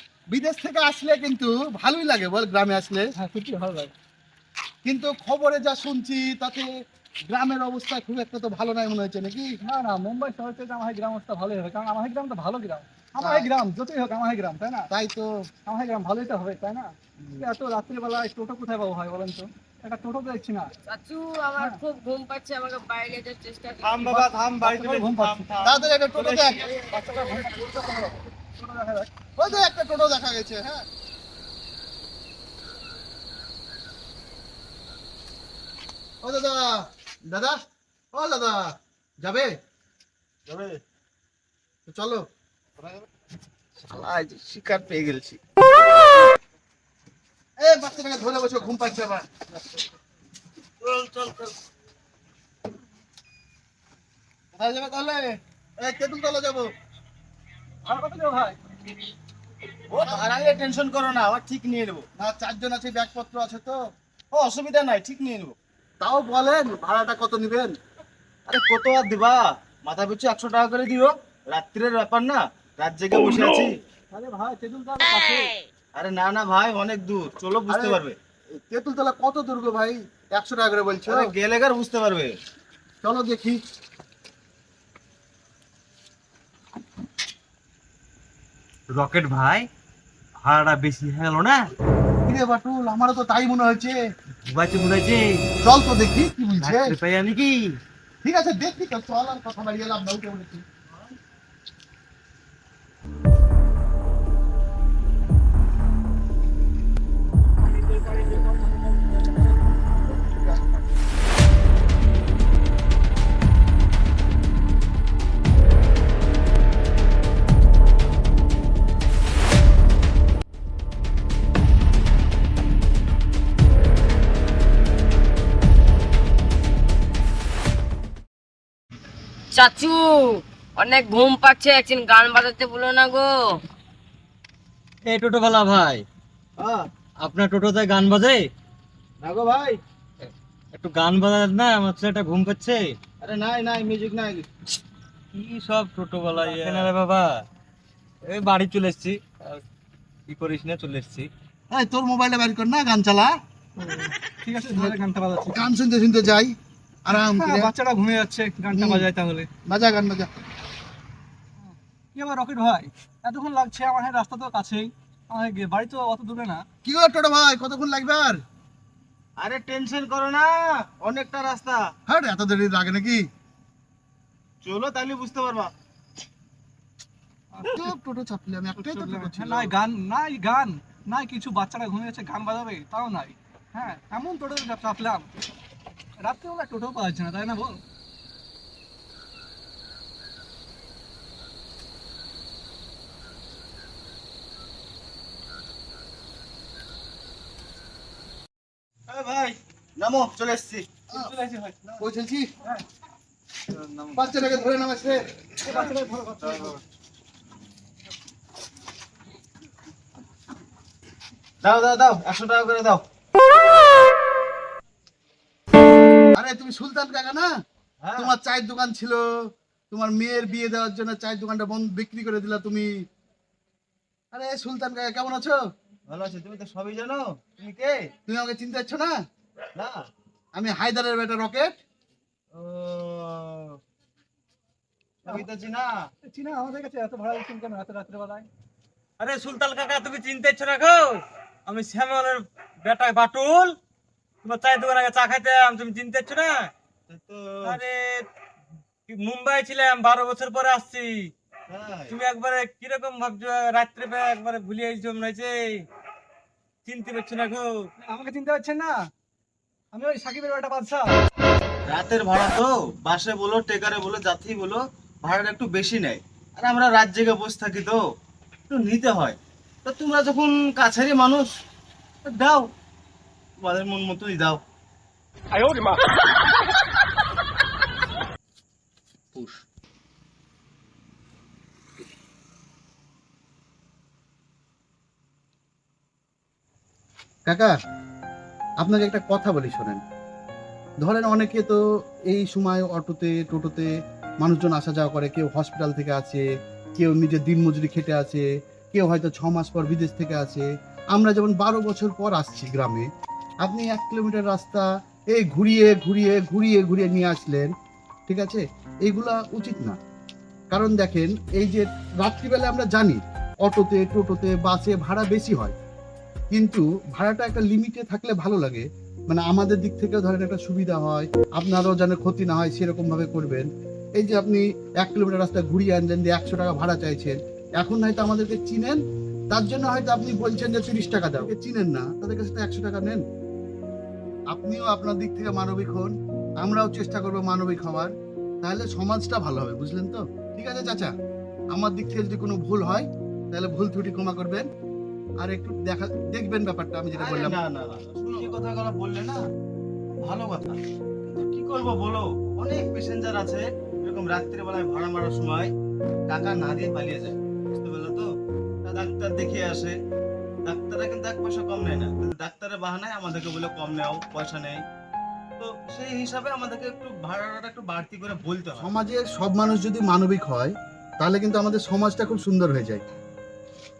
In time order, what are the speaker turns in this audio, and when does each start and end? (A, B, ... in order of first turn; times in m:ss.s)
0:00.3-0:03.1 A
0:03.2-0:03.9 B
0:04.8-0:06.7 A
0:07.3-0:09.5 A
0:09.6-0:14.9 B
0:13.2-0:13.5 A
0:14.9-0:15.3 A
0:15.7-0:20.7 B
0:20.9-0:24.2 C
0:23.8-0:25.8 D
0:24.0-0:29.1 B
0:25.6-0:26.8 A
0:29.4-0:30.8 A
0:36.2-0:37.6 A
0:38.1-0:39.5 A
0:40.5-0:40.8 E
0:41.9-0:42.2 A
0:43.8-0:45.4 E
0:47.6-0:49.3 A
0:50.8-0:51.5 E
0:54.6-0:55.2 A
0:55.8-0:56.7 A
0:57.8-0:58.6 B
0:59.9-1:02.1 E
1:00.0-1:00.3 A
1:02.2-1:03.8 A
1:04.3-1:05.6 E
1:06.0-1:07.8 A
1:08.5-1:13.7 E
1:14.1-1:15.6 B
1:16.0-1:18.2 E
1:17.7-1:18.0 A
1:18.6-1:21.3 A
1:21.1-1:22.4 E
1:23.0-1:23.6 A
1:28.9-1:29.7 D
1:30.4-1:31.6 D
1:32.2-1:34.0 A
1:34.5-1:35.5 D
1:35.6-1:37.0 A
1:36.6-1:37.8 D
1:38.2-1:40.6 A
2:09.5-2:13.6 C
2:15.0-2:16.1 D
2:17.2-2:18.4 D
2:19.2-2:19.8 E
2:20.7-2:23.0 D
2:23.2-2:24.5 E
2:25.3-2:27.4 D
2:26.4-2:26.9 E
2:28.2-2:29.6 D
2:30.3-2:31.3 D
2:31.7-2:33.3 A
2:33.8-2:35.6 B
2:34.7-2:37.7 A
2:37.1-2:39.5 B
2:38.7-2:39.1 A
2:39.6-2:40.3 A
2:41.6-2:46.6 B
2:46.8-2:48.4 A
2:49.4-2:51.9 E
2:52.1-2:53.3 A
2:54.6-2:55.7 E
2:57.5-2:57.9 B
2:57.6-2:59.7 A
2:58.8-3:05.3 B
3:06.2-3:07.8 B
3:19.1-3:20.9 E
3:21.1-3:22.0 B
3:22.0-3:22.5 A
3:23.8-3:24.1 E
3:24.2-3:25.2 A
3:25.6-3:26.8 B
3:31.6-3:33.0 E
3:36.3-3:37.5 A
3:38.0-3:38.3 E
3:38.2-3:39.2 A
3:39.9-3:42.9 A
3:44.3-3:45.6 A
3:46.1-3:48.1 E
3:48.3-3:49.2 A
3:50.6-3:51.7 A
3:52.5-3:53.8 E
3:55.2-3:55.9 E
3:56.2-3:58.5 B
3:59.2-4:03.8 D
4:04.4-4:06.7 D
4:07.1-4:07.8 E
4:07.6-4:08.3 D
4:09.1-4:11.3 D
4:11.7-4:12.2 E
4:12.1-4:15.9 D
4:16.8-4:17.7 D
4:18.0-4:19.0 B
4:19.9-4:21.2 B
4:21.9-4:28.0 E
4:28.7-4:31.5 E
4:32.2-4:32.7 E
4:33.6-4:34.6 E
4:47.5-4:47.7 A
4:48.8-4:50.0 A
4:51.0-4:56.5 A
4:57.0-5:03.1 A
5:03.6-5:07.7 A
5:08.3-5:10.0 A
5:10.7-5:15.8 A
5:16.5-5:33.2 A
5:34.5-5:41.1 A
5:41.7-5:44.7 A
5:45.4-5:47.6 A
5:47.1-5:49.4 E
5:50.2-5:55.7 E
5:56.3-5:58.3 E
5:58.8-6:00.0 E
6:00.7-6:04.8 E
6:05.6-6:08.9 E
6:08.8-6:13.0 A